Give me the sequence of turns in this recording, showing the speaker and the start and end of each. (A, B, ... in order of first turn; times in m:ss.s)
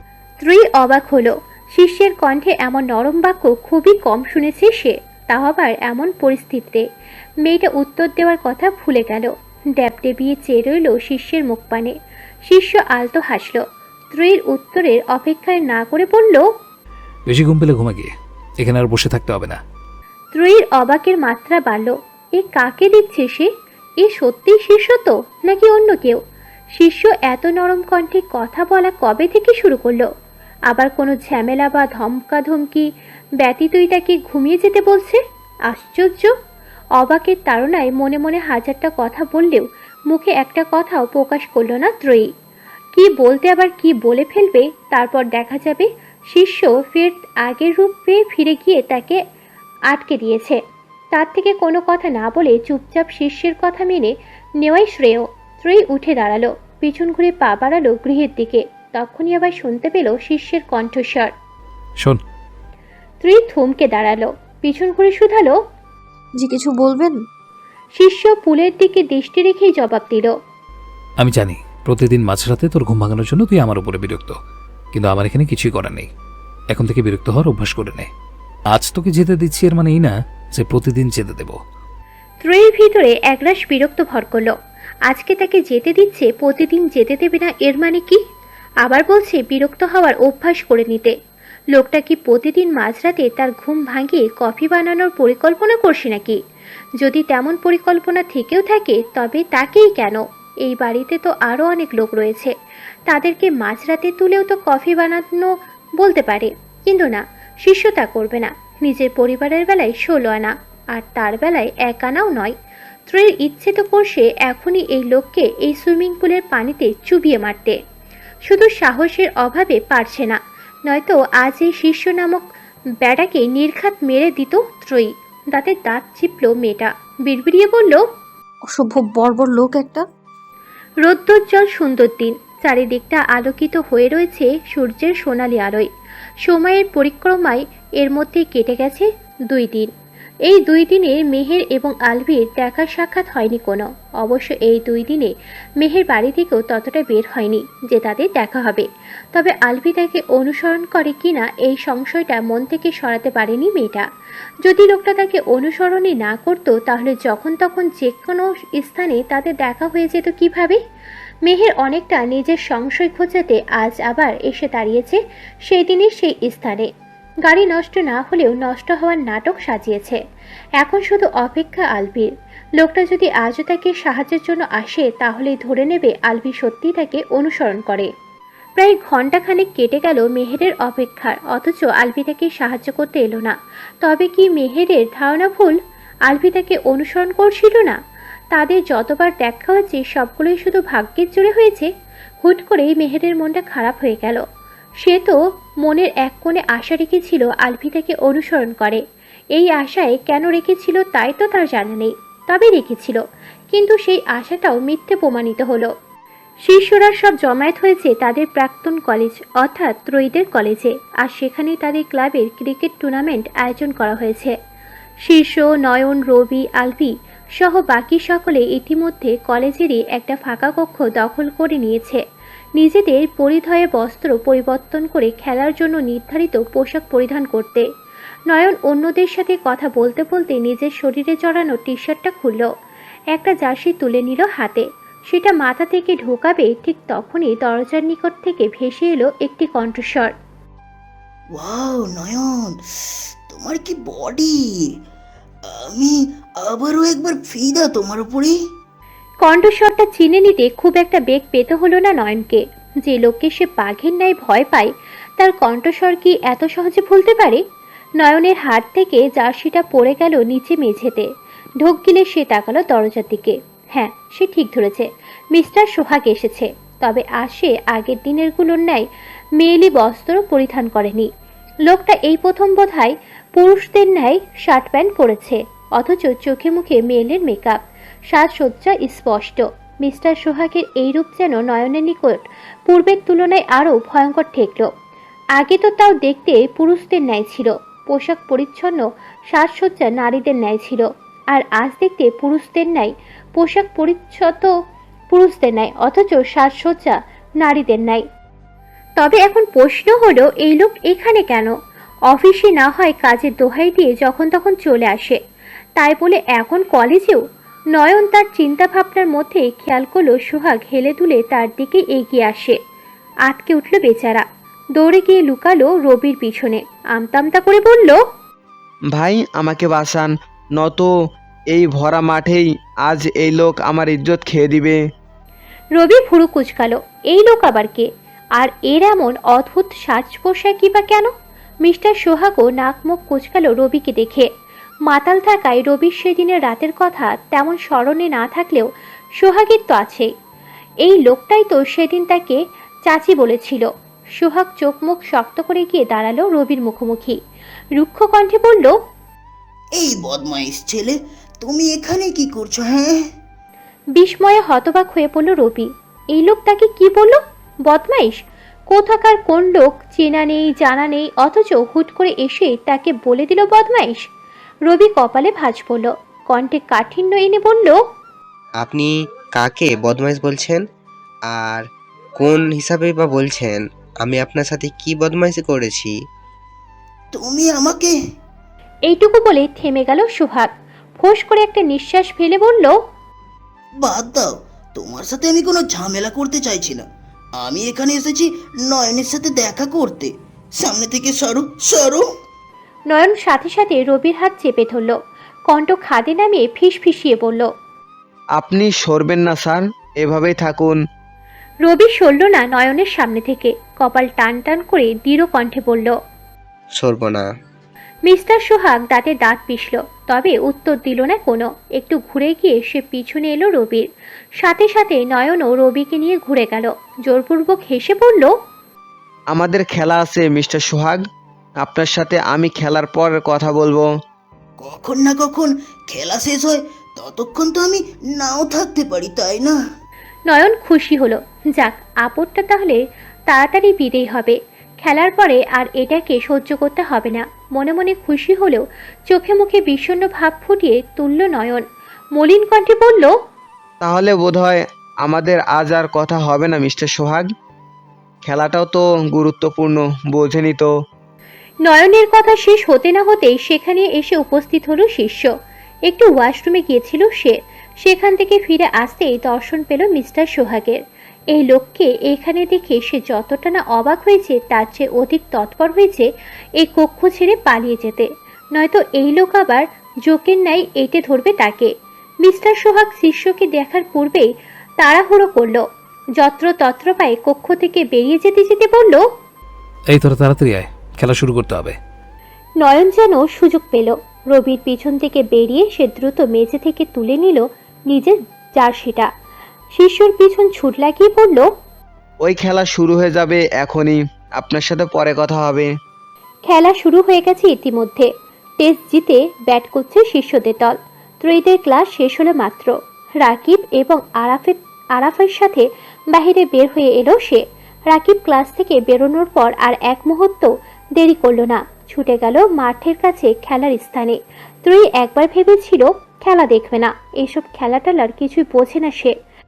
0:00.4-0:06.8 A
0:07.4-0:11.9 A
0:12.5-0:16.5 A
0:17.3-0:19.6 B
0:20.3-0:23.5 A
0:24.0-0:26.2 A
0:26.8-0:30.1 A
0:30.7-0:32.9 A
0:33.4-0:36.3 A
0:37.0-0:42.3 A
0:42.9-0:49.2 A
0:49.9-0:50.6 A
0:51.1-1:01.3 A
1:03.2-1:05.6 A
1:06.4-1:07.2 C
1:08.0-1:10.3 A
1:11.2-1:14.4 B
1:14.9-1:16.1 B
1:16.7-1:18.1 B
1:18.7-1:21.6 B
1:22.4-1:24.5 A
1:25.1-1:28.2 A
1:28.8-1:31.1 A
1:31.7-1:36.4 A
1:37.0-1:42.5 A
1:43.1-1:52.5 A
1:53.1-1:57.8 A
1:58.5-2:02.4 A
2:03.0-2:08.1 A
2:08.7-2:10.0 C
2:11.0-2:15.9 A
2:16.4-2:19.9 A
2:20.5-2:34.0 A
2:34.6-2:40.8 A
2:41.4-2:46.9 A
2:47.4-2:50.2 A
2:50.8-2:58.1 A
2:58.8-3:08.0 A
3:08.5-3:11.9 A
3:12.4-3:14.4 A
3:15.0-3:19.0 A
3:19.5-3:23.2 A
3:23.7-3:25.9 A
3:26.6-3:34.5 A
3:35.2-3:42.2 A
3:42.8-3:47.8 A
3:48.5-3:52.7 A
3:53.3-4:00.3 A
4:01.5-4:04.9 D
4:05.6-4:08.6 D
4:09.4-4:17.6 A
4:18.2-4:21.3 A
4:21.8-4:29.0 A
4:29.6-4:31.3 A
4:31.8-4:44.9 A
4:45.6-4:54.7 A
4:55.3-4:58.2 A
4:59.2-5:01.7 A
5:02.3-5:05.4 A
5:06.0-5:07.4 A
5:07.9-5:12.8 A
5:13.4-5:14.4 A
5:15.0-5:18.2 A
5:19.1-5:21.1 E
5:21.7-5:25.0 E
5:25.9-5:31.3 A
5:31.8-5:34.5 A
5:35.1-5:40.3 A
5:41.0-5:47.4 A
5:48.0-5:48.9 A
5:50.0-5:53.3 D
5:54.2-5:58.4 A
5:58.9-6:04.3 A
6:04.9-6:08.0 A
6:08.8-6:10.8 F
6:11.5-6:11.9 F
6:12.4-6:16.2 F
6:17.3-6:18.1 D
6:19.1-6:23.0 A
6:24.0-6:27.0 D
6:27.6-6:32.3 D
6:33.1-6:35.2 A
6:35.7-6:37.7 A
6:38.6-6:41.0 E
6:41.8-6:46.1 A
6:47.0-6:47.5 F
6:48.2-6:54.1 A
6:54.6-6:58.5 A
6:59.5-7:01.2 E
7:01.8-7:04.1 E
7:04.8-7:09.8 D
7:10.5-7:21.8 A
7:22.3-7:23.3 A
7:24.0-7:27.5 E
7:28.4-7:30.9 E
7:31.8-7:35.5 A
7:36.1-7:41.0 A
7:41.5-7:46.3 A
7:46.8-7:51.9 A
7:52.4-7:55.8 A
7:56.4-7:59.3 A
8:00.1-8:02.0 B
8:02.8-8:09.3 A
8:09.9-8:11.7 A
8:12.4-8:15.9 E
8:16.7-8:18.3 A
8:18.8-8:39.3 A